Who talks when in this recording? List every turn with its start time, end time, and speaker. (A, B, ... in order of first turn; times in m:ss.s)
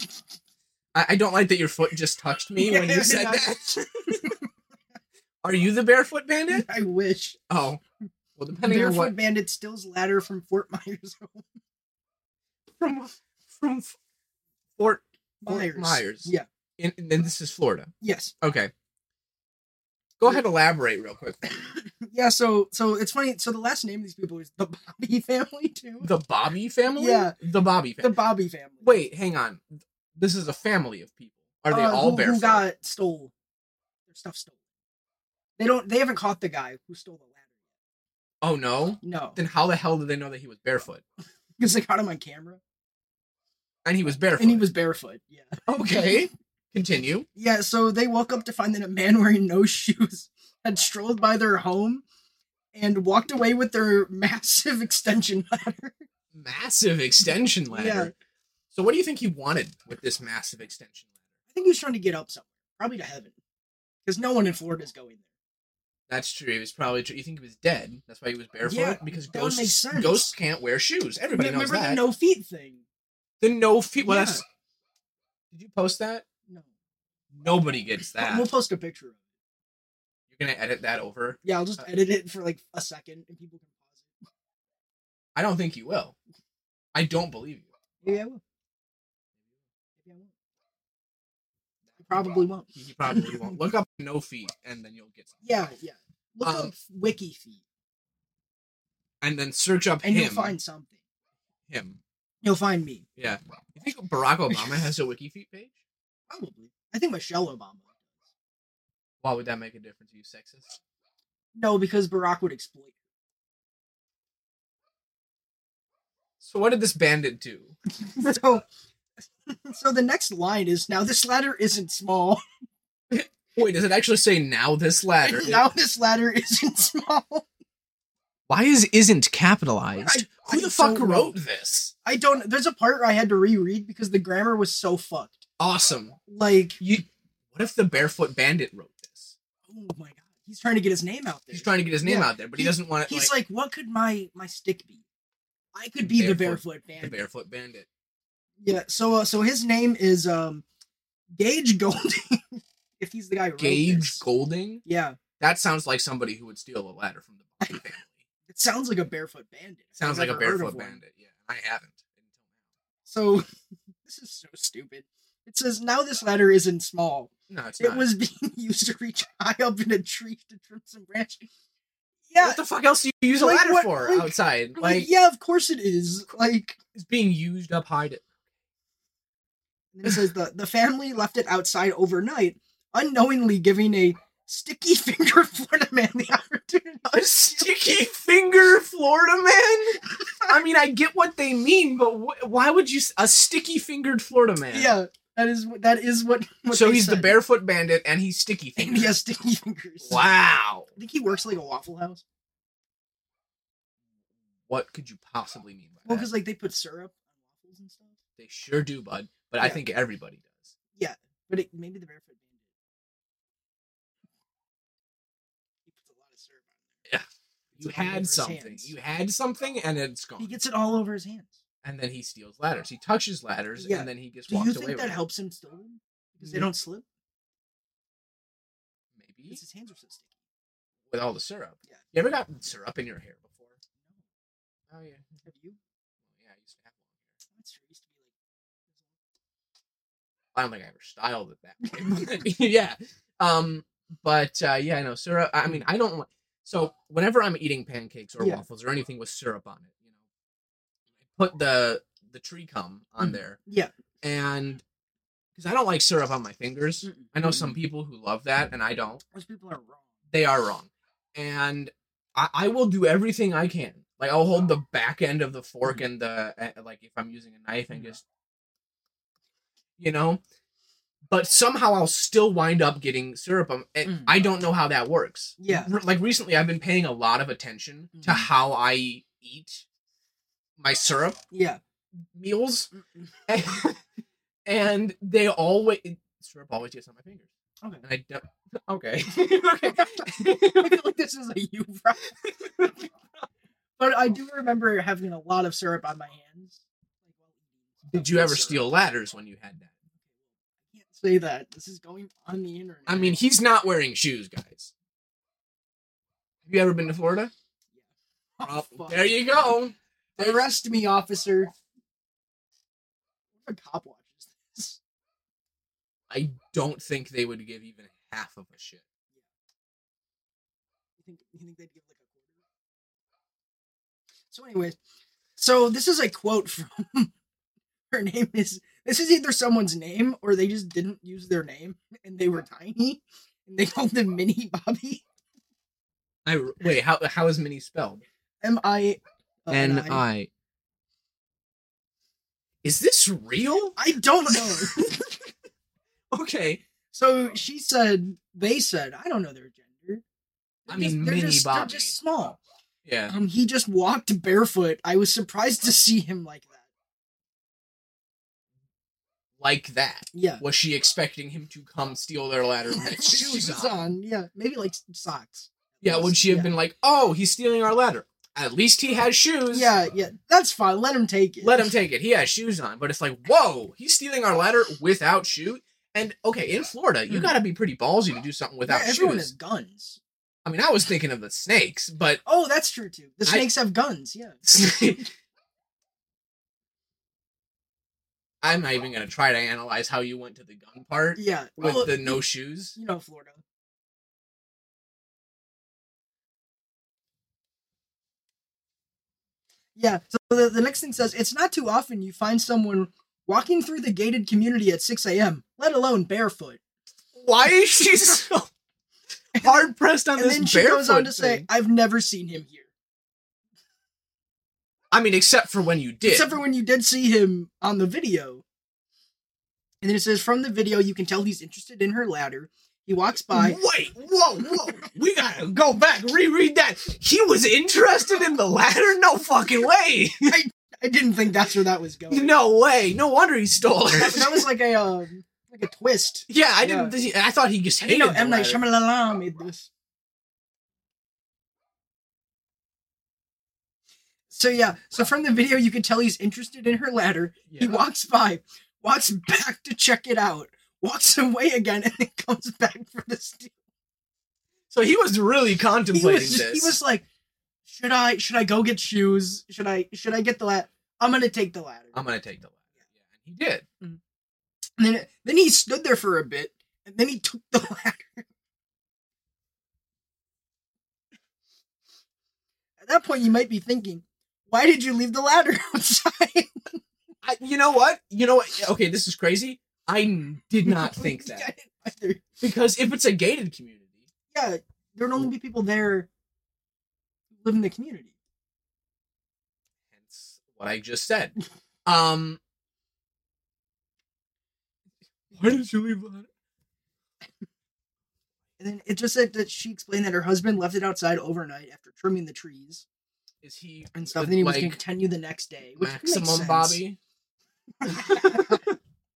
0:00.9-0:04.3 A
0:02.6-0:04.3 B
0:05.4-0:06.7 A
0:06.5-0:07.4 B
0:07.5-0:07.8 A
0:08.4-0:09.2 A
0:08.6-0:11.4 B
0:12.8-0:13.9 A
0:14.8-0:18.7 A
0:15.4-0:16.4 B
0:18.0-0:18.3 B
0:20.2-0:21.7 A
0:21.8-0:26.1 B
0:26.0-0:28.2 A
0:26.9-0:27.4 B
0:28.0-0:29.0 B
0:28.8-0:32.6 A
0:31.7-0:33.3 B
0:34.1-0:34.5 B
0:35.6-0:37.4 B
0:38.4-0:41.0 A
0:39.0-0:39.4 B
0:41.6-0:42.6 B
0:43.8-0:44.6 A
0:44.4-0:46.2 B
0:45.7-0:47.2 A
0:47.4-0:52.0 B
0:52.7-0:56.0 B
0:56.3-0:58.1 A
0:57.7-0:58.1 B
0:58.7-1:01.1 A
1:01.5-1:03.4 B
1:04.0-1:05.2 B
1:06.1-1:12.0 A
1:08.6-1:10.3 B
1:11.3-1:12.8 B
1:13.4-1:14.4 A
1:14.0-1:14.4 B
1:15.5-1:16.2 A
1:17.3-1:18.5 A
1:18.1-1:19.2 B
1:20.3-1:21.8 A
1:21.4-1:24.1 B
1:25.3-1:26.1 A
1:26.9-1:27.7 A
1:28.0-1:28.4 B
1:30.0-1:30.3 B
1:32.0-1:33.6 B
1:32.7-1:35.3 A
1:35.4-1:37.6 B
1:36.4-1:36.7 A
1:39.2-1:40.6 A
1:40.0-1:40.9 B
1:41.7-1:42.0 A
1:42.4-1:43.0 B
1:43.2-1:45.8 A
1:46.3-1:47.9 B
1:49.2-1:50.8 A
1:51.5-1:52.9 B
1:56.4-1:58.3 A
1:58.1-1:58.6 B
1:59.5-2:02.4 B
2:03.1-2:05.7 A
2:05.2-2:07.5 B
2:08.5-2:11.9 A
2:10.0-2:11.4 B
2:12.0-2:15.4 B
2:15.6-2:16.2 A
2:16.3-2:16.8 B
2:16.8-2:19.3 A
2:19.7-2:25.0 B
2:21.5-2:23.3 A
2:25.7-2:27.2 B
2:26.0-2:27.9 A
2:28.6-2:30.6 B
2:31.4-2:34.2 B
2:33.6-2:34.8 A
2:34.8-2:35.2 B
2:35.4-2:38.2 A
2:38.5-2:41.0 B
2:40.0-2:42.1 A
2:43.0-2:43.4 B
2:44.0-2:51.5 B
2:47.5-2:48.1 A
2:52.3-2:52.6 B
2:52.4-2:55.1 A
2:53.3-2:56.8 B
2:56.9-2:58.2 A
2:59.9-3:07.7 B
3:07.1-3:15.0 A
3:14.7-3:17.4 B
3:16.7-3:19.2 A
3:18.8-3:20.4 B
3:20.0-3:20.9 A
3:20.9-3:22.2 B
3:24.7-3:26.3 A
3:26.0-3:28.1 B
3:28.4-3:30.7 A
3:31.0-3:32.4 B
3:35.9-3:36.6 B
3:37.7-3:38.9 B
3:37.8-3:40.5 A
3:40.4-3:41.5 B
3:41.8-3:45.2 A
3:43.8-3:47.0 B
3:46.4-3:46.7 A
3:49.1-3:49.6 A
3:49.5-3:50.2 B
3:51.1-3:53.7 A
3:54.9-3:55.3 A
3:55.4-3:55.8 B
3:56.4-3:57.0 A
3:57.5-3:58.2 B
4:00.5-4:10.0 A
4:11.3-4:13.6 A
4:13.2-4:13.9 B
4:14.2-4:14.8 A
4:15.6-4:19.2 A
4:17.0-4:17.7 B
4:19.3-4:20.1 B
4:20.3-4:28.2 A
4:30.0-4:30.4 A
4:31.3-4:39.8 A
4:34.0-4:34.3 B
4:35.6-4:35.9 B
4:38.1-4:38.5 B
4:40.8-4:41.4 A
4:41.5-4:41.8 B
4:42.3-4:42.9 A
4:42.9-4:43.2 B
4:43.5-4:44.0 A
4:44.6-4:47.5 A
4:48.0-4:51.0 A
4:49.8-4:52.4 B
4:52.4-4:52.9 A
4:54.0-4:58.8 B
4:58.1-4:59.9 A
5:00.9-5:03.4 B
5:03.1-5:04.9 A
5:06.6-5:07.5 A
5:08.6-5:09.3 B
5:08.6-5:10.6 A
5:10.4-5:11.7 B
5:13.6-5:15.0 B
5:16.3-5:19.0 A
5:21.2-5:22.5 B
5:24.5-5:25.0 B
5:25.6-5:27.3 B
5:28.1-5:35.2 B
5:36.4-5:38.2 A
5:38.6-5:40.2 B
5:39.7-5:40.5 A
5:42.8-5:44.0 A
5:44.0-5:45.1 B
5:44.5-5:45.3 A
5:46.3-5:46.8 A
5:47.1-5:50.2 B
5:50.9-5:52.6 B
5:50.9-5:52.1 A
5:53.0-5:53.3 A
5:53.3-5:56.8 B
5:59.6-6:04.0 A
6:00.3-6:00.6 B
6:02.9-6:06.7 B
6:06.0-6:09.9 A
6:09.7-6:11.8 B
6:11.6-6:19.5 A
6:18.8-6:20.2 B
6:20.6-6:22.4 A
6:22.4-6:25.2 B
6:24.6-6:25.2 A
6:28.6-6:33.0 A
6:31.4-6:32.4 B
6:32.9-6:33.6 B
6:40.0-6:46.8 B
6:47.3-6:48.7 A
6:49.6-6:51.7 A
6:49.6-6:52.9 B
6:55.1-6:56.5 A
6:56.2-6:58.6 B
7:00.0-7:03.8 B
7:03.5-7:10.6 A
7:10.4-7:12.5 B
7:12.3-7:14.7 A
7:14.1-7:17.1 B
7:16.5-7:18.8 A
7:18.0-7:19.9 B
7:24.5-7:33.7 B
7:27.7-7:28.0 A
7:34.9-7:37.0 A
7:36.1-7:37.2 B
7:37.9-7:42.2 B
7:42.1-7:43.8 A
7:45.0-7:48.4 B
7:53.0-7:57.0 B
7:57.4-8:01.7 A
8:00.8-8:02.4 B
8:02.6-8:04.1 A
8:04.5-8:06.3 B
8:07.5-8:08.3 B
8:10.2-8:12.6 A
8:15.5-8:16.5 A
8:18.8-8:23.0 B
8:23.6-8:25.0 A
8:24.1-8:27.0 B
8:26.0-8:27.2 A
8:28.0-8:28.9 B
8:28.1-8:28.8 A